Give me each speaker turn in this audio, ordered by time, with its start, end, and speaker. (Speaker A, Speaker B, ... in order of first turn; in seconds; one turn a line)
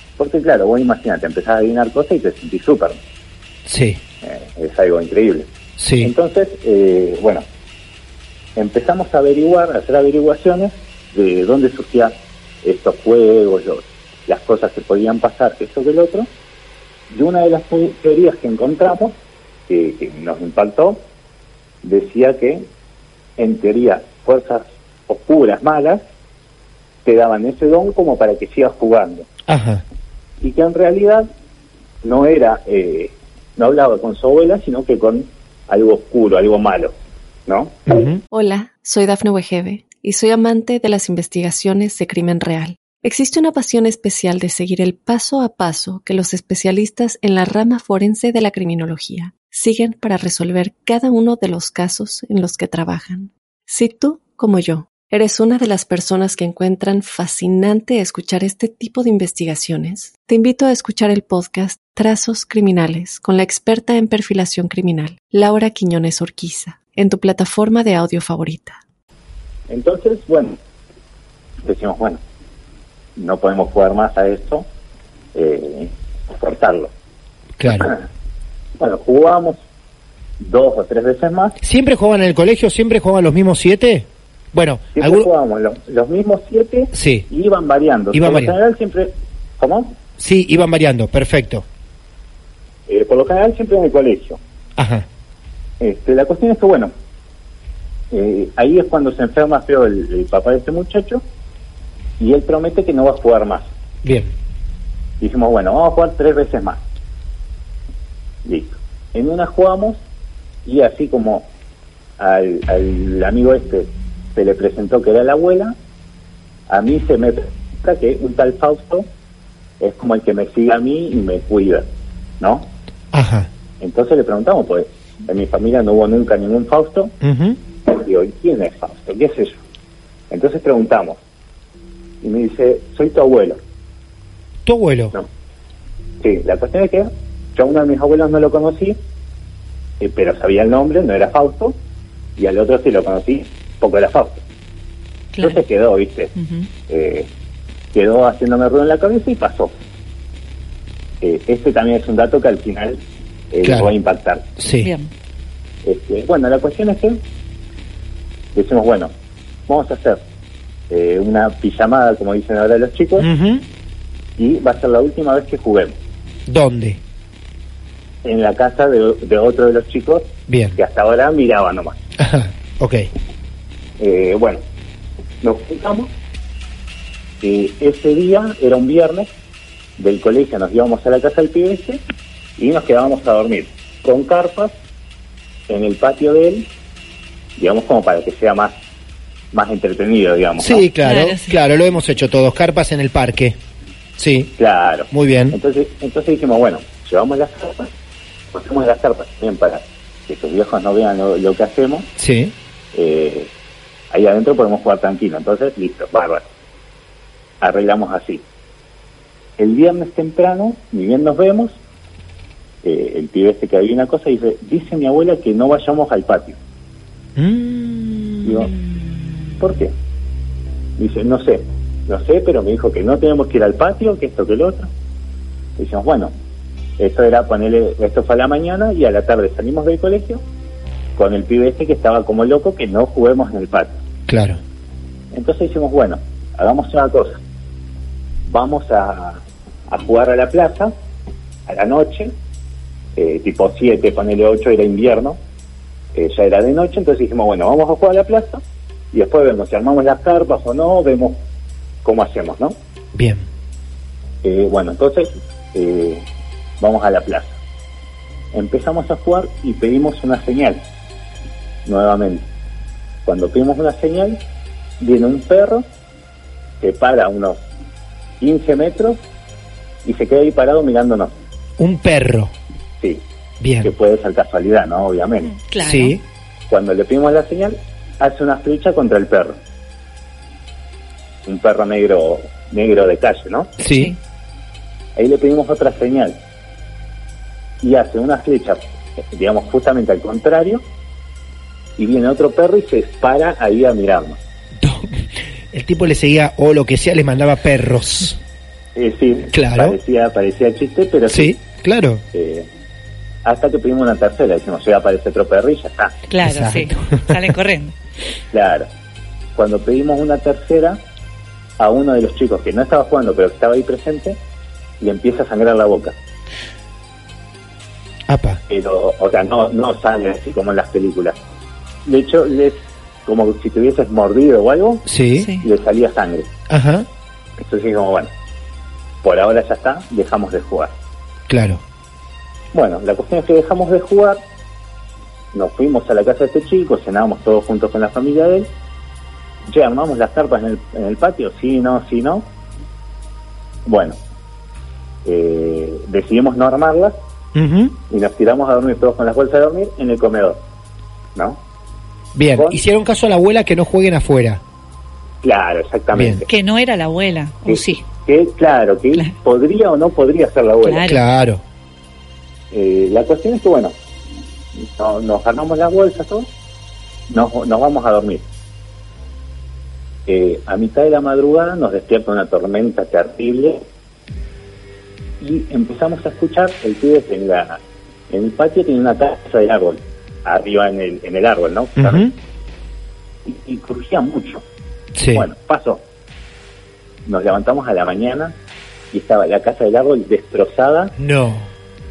Speaker A: 0.2-3.0
Speaker B: 3.6-4.0
Speaker A: 4.2-5.5
Speaker B: 5.8-6.1
Speaker A: 6.0-7.4
Speaker A: 8.6-16.3
Speaker A: 17.1-19.2
Speaker A: 19.7-21.0
Speaker A: 21.8-22.7
Speaker A: 23.4-26.0
Speaker A: 27.0-29.3
Speaker B: 29.5-29.8
Speaker A: 30.4-31.3
Speaker A: 32.0-36.9
Speaker A: 37.5-38.0
Speaker B: 37.9-38.2
Speaker C: 38.3-68.8
Speaker A: 69.7-70.6
Speaker A: 71.6-72.2
Speaker A: 73.2-74.7
Speaker A: 75.3-76.9
Speaker B: 77.6-77.9
Speaker A: 77.7-78.0
Speaker A: 78.8-79.6
Speaker A: 80.4-81.6
Speaker B: 81.6-85.3
Speaker A: 84.9-89.9
Speaker B: 86.9-87.2
Speaker B: 88.1-88.5
Speaker B: 90.2-91.6
Speaker A: 92.9-94.4
Speaker B: 94.8-95.1
Speaker A: 95.8-96.9
Speaker A: 98.1-101.2
Speaker A: 102.2-103.7
Speaker B: 104.0-104.3
Speaker A: 105.2-106.8
Speaker A: 108.4-110.0
Speaker A: 110.6-111.5
Speaker A: 112.2-115.7
Speaker A: 116.7-119.1
Speaker A: 119.8-121.9
Speaker A: 122.4-122.7
Speaker B: 123.1-123.5
Speaker A: 123.8-127.1
Speaker B: 127.2-127.6
Speaker A: 127.9-129.6
Speaker A: 130.3-131.2
Speaker A: 132.2-133.6
Speaker B: 134.7-135.1
Speaker A: 136.2-139.0
Speaker A: 140.0-141.8
Speaker A: 142.4-144.4
Speaker D: 145.3-145.6
Speaker A: 145.4-146.3
Speaker D: 146.3-146.7
Speaker A: 146.9-147.3
Speaker A: 147.9-149.7
Speaker A: 151.2-154.5
Speaker B: 153.6-153.9
Speaker B: 154.6-154.9
Speaker D: 154.8-155.1
Speaker A: 155.8-157.2
Speaker A: 158.5-159.1
Speaker A: 159.7-160.2
Speaker A: 160.9-163.3
Speaker B: 163.2-163.7
Speaker A: 164.4-165.9
Speaker B: 166.5-167.0
Speaker A: 168.2-172.0
Speaker B: 170.5-170.8
Speaker B: 172.2-173.1
Speaker A: 174.0-174.6
Speaker A: 175.4-176.1
Speaker A: 177.4-179.3
Speaker A: 180.0-182.0
Speaker A: 182.6-184.7
Speaker A: 185.7-186.7
Speaker A: 187.6-188.7
Speaker A: 189.5-190.9
Speaker B: 190.6-193.6
Speaker D: 191.0-191.6
Speaker B: 194.2-194.5
Speaker A: 194.6-197.9
Speaker B: 195.1-195.6
Speaker A: 198.5-202.1
Speaker B: 202.2-202.5
Speaker A: 202.9-203.5
Speaker A: 204.1-206.4
Speaker A: 207.6-208.4
Speaker A: 209.6-211.8
Speaker A: 212.8-216.6
Speaker B: 217.3-218.7
Speaker A: 218.4-218.7
Speaker A: 219.6-219.9
Speaker A: 221.0-224.9
Speaker A: 225.8-226.3
Speaker A: 227.0-230.4
Speaker A: 231.2-234.0
Speaker B: 234.3-234.6
Speaker A: 235.3-237.4
Speaker A: 238.4-240.9
Speaker A: 241.7-242.3
Speaker A: 243.2-245.4
Speaker A: 246.1-248.6
Speaker A: 249.1-251.4
Speaker A: 252.0-252.8
Speaker B: 253.1-253.5
Speaker A: 254.4-256.2
Speaker A: 256.8-257.6
Speaker A: 258.5-260.8
Speaker A: 261.8-262.5
Speaker A: 263.2-264.4
Speaker A: 265.0-265.9
Speaker A: 266.8-267.6
Speaker A: 268.4-269.2
Speaker A: 270.0-271.3
Speaker B: 271.8-272.5
Speaker B: 273.6-273.9
Speaker A: 273.8-275.5
Speaker D: 275.4-276.2
Speaker B: 275.8-276.2
Speaker A: 276.7-279.6
Speaker A: 281.4-283.7
Speaker B: 283.8-284.1
Speaker D: 283.9-284.2
Speaker A: 285.1-286.4
Speaker A: 287.8-290.8
Speaker A: 292.0-294.4
Speaker B: 294.8-298.4
Speaker A: 298.9-301.6
Speaker B: 299.5-300.0
Speaker B: 301.3-302.2
Speaker A: 302.3-302.7
Speaker A: 303.4-306.2
Speaker D: 306.3-307.9
Speaker B: 306.4-307.5
Speaker A: 308.5-308.9
Speaker A: 309.5-311.0
Speaker A: 311.8-314.4
Speaker A: 315.0-316.1
Speaker B: 318.3-318.6
Speaker A: 318.7-321.4
Speaker A: 322.0-325.0
Speaker B: 325.1-325.5
Speaker D: 325.4-325.7
Speaker A: 325.6-326.5
Speaker B: 326.7-327.1
Speaker A: 327.6-328.3
Speaker A: 329.2-330.9
Speaker B: 331.5-331.8
Speaker A: 332.7-334.4
Speaker A: 335.5-338.7
Speaker A: 339.7-342.5
Speaker A: 343.9-344.2
Speaker A: 345.2-347.2
Speaker B: 347.5-348.0
Speaker A: 348.1-350.6
Speaker A: 351.3-351.6
Speaker B: 352.3-354.6
Speaker A: 352.5-352.8
Speaker A: 355.4-356.5
Speaker B: 356.1-356.4
Speaker D: 356.5-358.0
Speaker A: 357.6-361.0
Speaker D: 360.8-361.2
Speaker B: 361.0-361.6
Speaker A: 362.7-363.9
Speaker A: 364.8-366.5
Speaker A: 367.3-368.4
Speaker A: 370.3-373.8
Speaker A: 375.4-382.3
Speaker B: 382.0-382.3
Speaker A: 383.4-384.6
Speaker B: 385.1-385.5
Speaker A: 385.3-386.0
Speaker A: 387.2-388.5
Speaker A: 389.1-391.1
Speaker B: 391.2-391.7